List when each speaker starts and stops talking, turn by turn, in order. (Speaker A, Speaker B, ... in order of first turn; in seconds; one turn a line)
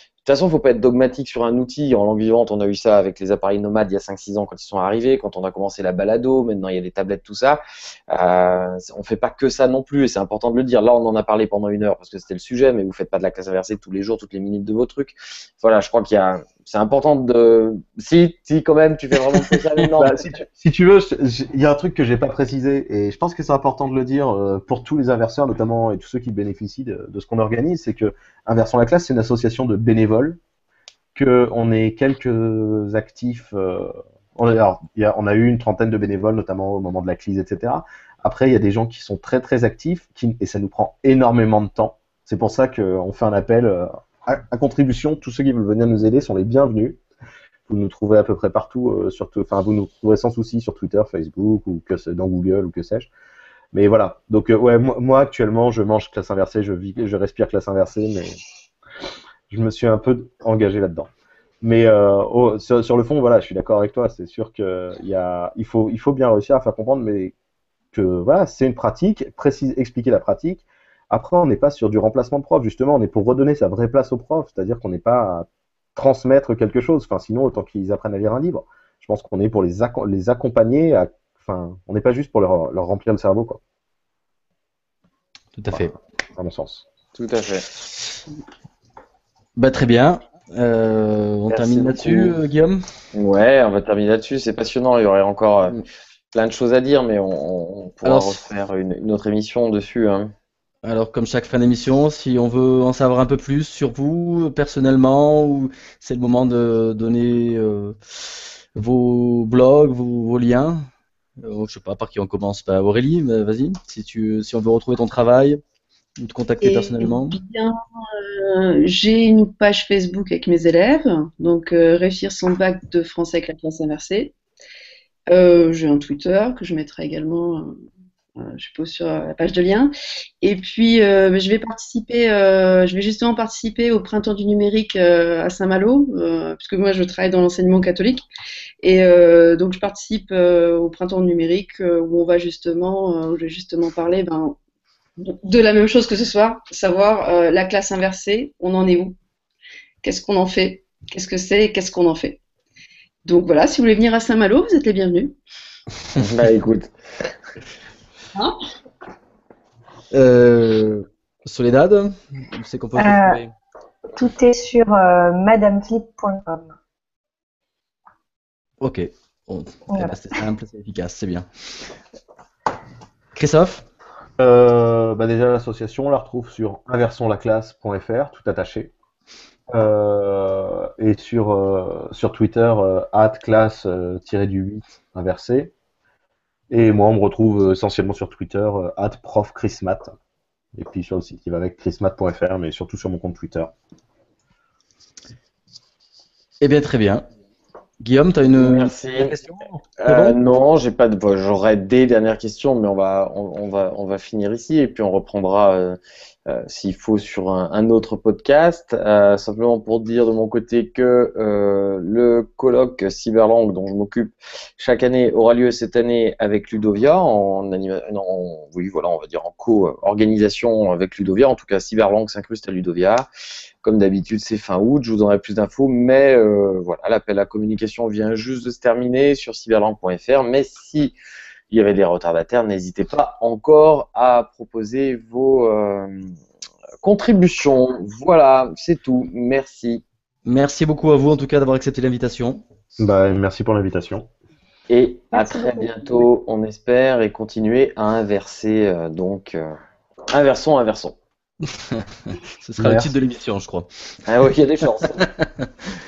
Speaker A: 0.2-20.2
Speaker B: 20.0-30.4
Speaker B: 31.1-47.0
Speaker B: 47.7-53.1
Speaker B: 53.7-58.4
Speaker B: 59.5-61.1
Speaker B: 61.6-67.3
Speaker B: 67.9-83.6
Speaker C: 85.5-85.9
Speaker B: 85.7-86.8
Speaker A: 87.1-87.7
Speaker C: 89.5-92.8
Speaker A: 91.5-92.4
Speaker A: 93.1-95.8
Speaker A: 96.3-100.3
Speaker C: 98.0-98.4
Speaker C: 100.8-115.6
Speaker C: 116.2-117.4
Speaker D: 116.6-124.3
Speaker D: 125.3-127.7
Speaker D: 128.3-138.2
Speaker D: 138.8-144.6
Speaker D: 145.2-149.2
Speaker D: 150.0-152.4
Speaker D: 153.2-155.4
Speaker A: 156.2-156.9
Speaker C: 160.1-163.5
Speaker E: 163.0-163.4
Speaker E: 164.1-166.7
Speaker C: 168.8-171.9
Speaker E: 169.9-170.2
Speaker C: 173.3-173.8
Speaker B: 174.4-178.9
Speaker B: 179.7-185.7
Speaker B: 186.7-190.1
Speaker B: 190.7-193.7
Speaker C: 196.6-197.2
Speaker C: 198.0-200.4
Speaker A: 198.6-223.3
Speaker A: 223.8-231.1
Speaker A: 231.7-236.4
Speaker A: 237.0-240.0
Speaker C: 240.4-242.6
Speaker B: 243.0-244.3
Speaker A: 244.9-249.8
Speaker E: 245.3-245.9
Speaker A: 250.3-251.2
Speaker C: 251.8-253.9
Speaker B: 252.8-253.1
Speaker A: 254.3-255.3
Speaker C: 255.0-255.7